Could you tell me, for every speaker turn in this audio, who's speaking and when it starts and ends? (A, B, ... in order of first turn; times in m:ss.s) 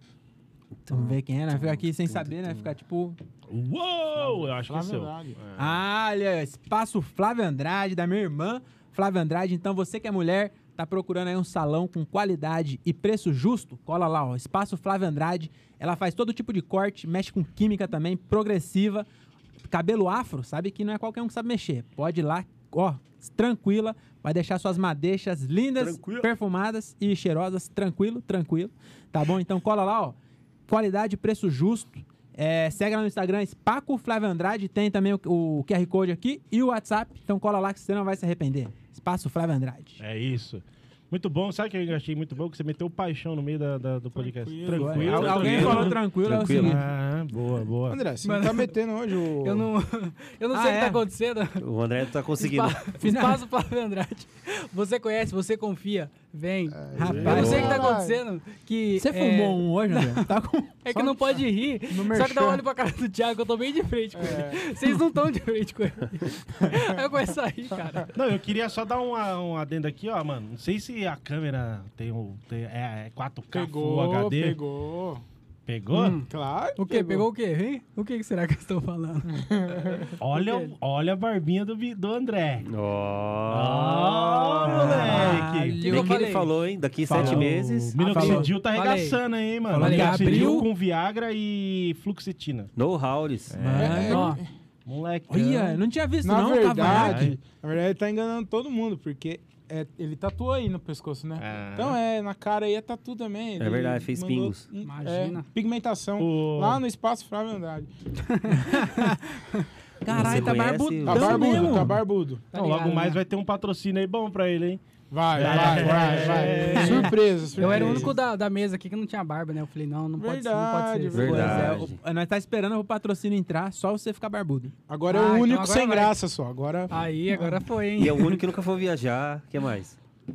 0:00.8-0:02.5 A
0:00.9-0:03.2 B
0:03.5-0:05.8 C
0:04.2-0:05.4 D
0:05.6-0:19.1 B
0:19.7-0:30.2 B
0:25.8-0:26.3 A
0:30.7-0:40.0 B
0:40.0-0:48.0 C
0:44.2-0:45.6 D
0:44.7-0:46.8 B
0:45.1-0:46.8 A
0:47.9-0:49.7 D
0:48.2-0:51.6 E
0:50.5-0:51.0 B
0:51.6-0:52.8 A
0:52.4-1:00.3 E
0:53.0-0:53.4 B
0:56.7-0:58.2 D
0:56.9-0:57.9 B
0:57.0-0:57.6 C
0:57.2-0:57.9 A
0:59.0-1:00.8 B
1:00.8-1:08.1 E
1:00.9-1:02.6 D
1:04.1-1:04.6 D
1:06.7-1:06.9 D
1:08.1-1:14.6 C
1:13.5-1:15.2 D
1:15.7-1:16.2 C
1:15.9-1:19.4 E
1:16.3-1:17.3 D
1:19.3-1:20.1 D
1:20.2-1:22.7 C
1:20.3-1:20.7 E
1:22.6-1:28.0 A
1:23.5-1:25.8 C
1:24.6-1:26.3 B
1:25.3-1:26.5 E
1:27.0-1:28.5 B
1:27.1-1:32.7 C
1:28.1-1:29.2 E
1:29.7-1:30.7 B
1:29.7-1:30.6 E
1:32.8-1:33.6 A
1:33.5-1:34.1 C
1:33.6-1:34.4 B
1:33.7-1:34.5 D
1:34.0-1:34.4 E
1:34.8-1:35.8 C
1:35.3-1:37.3 B
1:36.2-1:47.9 D
1:36.8-1:37.4 C
1:41.4-1:42.0 C
1:43.6-1:44.6 A
1:44.8-1:45.4 E
1:46.2-1:46.8 C
1:48.2-1:49.7 E
1:48.6-1:49.2 B
1:50.0-1:52.0 B
1:50.1-1:51.9 A
1:51.0-1:52.4 D
1:52.5-1:53.2 E
1:52.5-1:54.8 C
1:55.1-1:58.2 D
1:55.3-1:58.1 C
1:55.5-1:56.2 B
1:56.4-1:57.0 E
1:56.7-1:57.1 B
1:57.6-2:01.6 E
2:00.2-2:01.9 D
2:01.1-2:02.0 A
2:01.2-2:04.7 B
2:04.9-2:07.6 D
2:05.1-2:06.2 E
2:06.9-2:08.4 E
2:08.0-2:10.0 A